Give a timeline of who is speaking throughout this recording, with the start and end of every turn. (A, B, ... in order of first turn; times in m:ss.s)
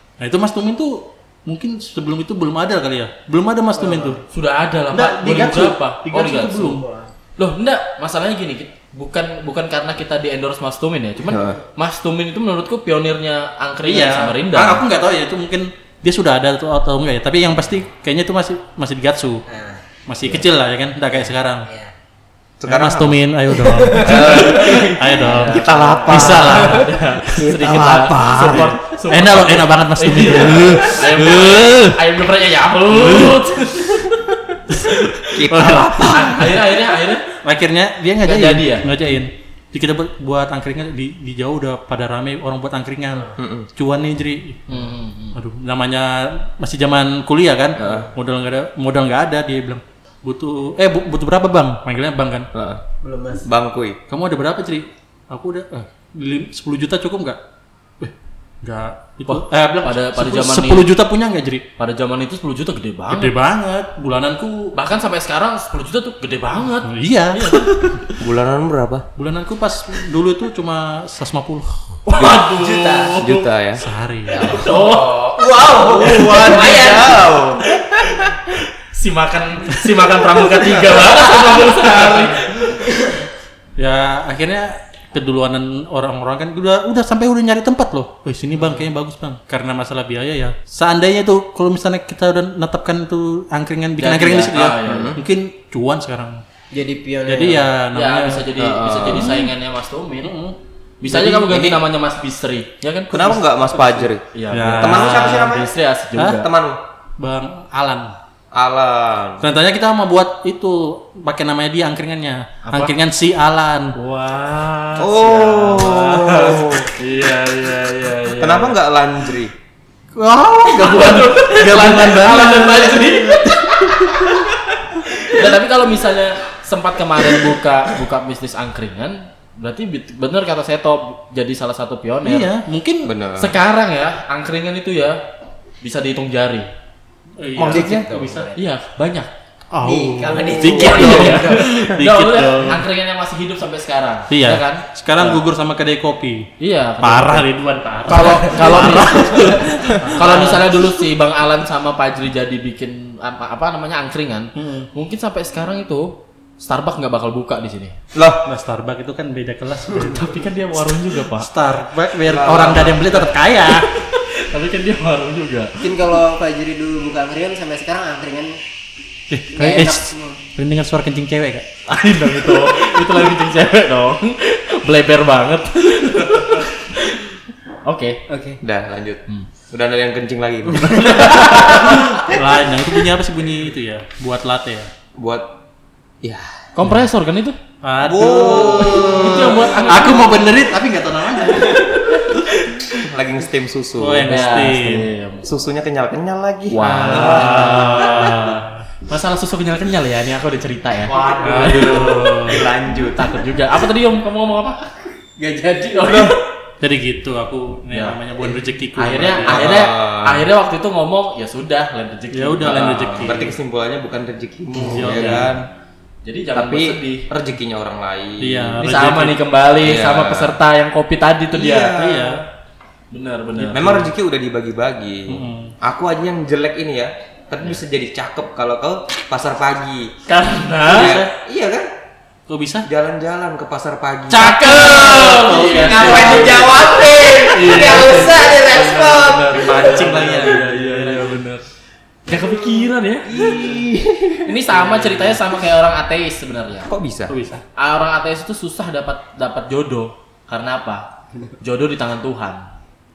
0:00.2-0:04.2 A
0:03.9-0:04.1 B
0:04.3-0:06.8 C
0:04.9-0:07.1 A
0:07.4-0:14.8 C
0:11.3-0:11.6 D
0:13.9-0:19.4 A
0:19.5-0:19.8 B
0:20.1-0:21.7 A
0:21.1-0:21.9 B
0:22.6-0:23.2 D
0:22.7-0:32.0 A
0:24.0-0:26.6 D
0:25.2-0:34.1 C
0:27.6-0:28.7 D
0:32.9-0:33.5 A
0:34.7-0:36.6 A
0:35.3-0:36.6 D
0:35.9-0:37.3 C
0:37.4-0:44.8 A
0:38.2-0:38.9 C
0:43.4-0:43.7 D
0:44.7-0:45.4 C
0:45.3-0:52.5 A
0:47.8-0:48.1 D
0:52.5-0:52.8 D
0:53.0-0:53.5 B
0:53.4-0:54.0 D
0:54.1-0:57.4 A
0:58.0-1:01.6 A
0:59.3-1:00.9 C
1:01.8-1:03.3 C
1:03.1-1:04.7 A
1:04.8-1:07.7 C
1:06.8-1:08.1 A
1:08.2-1:09.0 D
1:09.2-1:11.7 A
1:12.1-1:13.5 C
1:12.2-1:12.5 D
1:12.4-1:13.2 B
1:13.2-1:13.8 D
1:13.8-1:14.8 A
1:14.4-1:14.7 B
1:14.4-1:14.9 D
1:14.5-1:17.2 C
1:15.4-1:17.3 B
1:15.7-1:17.6 D
1:18.9-1:22.9 C
1:23.8-1:36.4 A
1:34.0-1:35.2 C
1:34.9-1:35.2 D
1:36.7-1:37.7 B
1:37.3-1:38.5 A
1:37.9-1:40.4 C
1:38.6-1:39.4 D
1:39.1-1:39.5 A
1:40.2-1:41.5 A
1:41.0-1:43.4 C
1:41.3-1:41.8 D
1:43.1-1:44.2 D
1:44.3-1:46.5 C
1:44.5-1:45.6 A
1:44.8-1:45.7 D
1:46.2-1:46.5 A
1:46.2-1:46.8 D
1:47.2-1:48.2 A
1:48.5-1:49.4 D
1:49.4-1:54.0 A
1:52.6-1:52.9 C
1:54.0-1:58.8 C
1:55.0-1:56.9 D
1:55.2-1:56.6 A
1:58.4-1:59.5 D
2:00.2-2:04.4 A
2:00.7-2:04.4 C
2:05.2-2:12.5 C
2:12.2-2:13.1 A
2:13.0-2:13.6 D
2:13.4-2:15.2 C
2:15.8-2:16.7 C
2:17.4-2:18.5 A
2:17.6-2:18.1 D
2:17.6-2:18.6 B
2:18.5-2:19.3 C
2:19.7-2:22.8 A
2:19.8-2:21.5 B
2:20.5-2:25.4 C
2:21.0-2:21.3 D
2:24.3-2:26.5 A
2:26.6-2:27.5 C
2:27.0-2:30.9 A
2:28.0-2:38.0 C
2:34.6-2:34.9 A
2:38.2-2:38.4 D
2:38.4-2:40.3 A
2:40.0-2:41.5 C
2:41.3-2:43.9 A
2:42.2-2:43.3 D
2:44.0-2:45.9 C
2:45.8-2:48.6 B
2:49.3-2:51.7 A
2:49.5-2:50.4 B
2:51.9-2:58.2 C
2:58.3-2:58.6 B
2:58.6-3:01.6 D
3:00.8-3:02.0 B
3:01.0-3:01.9 C
3:01.1-3:04.9 A
3:05.2-3:05.5 D
3:06.2-3:06.5 D
3:06.8-3:07.6 C
3:07.8-3:12.4 A
3:08.0-3:10.2 D
3:08.4-3:10.4 C
3:13.0-3:14.4 D
3:14.0-3:15.1 A
3:14.3-3:15.5 C
3:15.4-3:18.0 D
3:16.8-3:18.8 A
3:17.0-3:22.2 C
3:21.1-3:23.3 D
3:21.1-3:21.8 B
3:21.4-3:22.6 A
3:23.1-3:24.9 C
3:25.4-3:26.3 B
3:26.1-3:26.3 D
3:26.8-3:29.7 A
3:27.9-3:28.2 C
3:28.9-3:33.3 C
3:29.4-3:30.4 D
3:32.3-3:33.6 A
3:32.6-3:35.7 D
3:34.8-3:35.6 A
3:36.2-3:37.3 C
3:36.6-3:38.8 D
3:38.4-3:39.4 A
3:38.8-3:42.2 C
3:39.8-3:40.6 D
3:41.5-3:42.3 D
3:42.0-3:42.4 A
3:43.1-3:44.0 C
3:43.6-3:44.0 A
3:43.7-3:50.1 D
3:45.3-3:45.7 A
3:50.3-3:51.2 C
3:50.9-3:51.9 D
3:50.9-3:51.3 A
3:52.5-3:52.9 A
3:52.8-3:59.6 D
3:54.3-3:56.7 A
3:54.4-3:56.9 C
3:56.1-3:59.5 B
3:57.5-4:01.6 C
3:57.7-3:58.0 A
3:59.5-4:01.4 A
4:02.3-4:03.4 C
4:03.3-4:04.6 D
4:04.4-4:06.9 C
4:04.9-4:05.2 A
4:06.9-4:07.4 D
4:07.3-4:07.6 A
4:07.8-4:11.0 C
4:11.6-4:12.6 C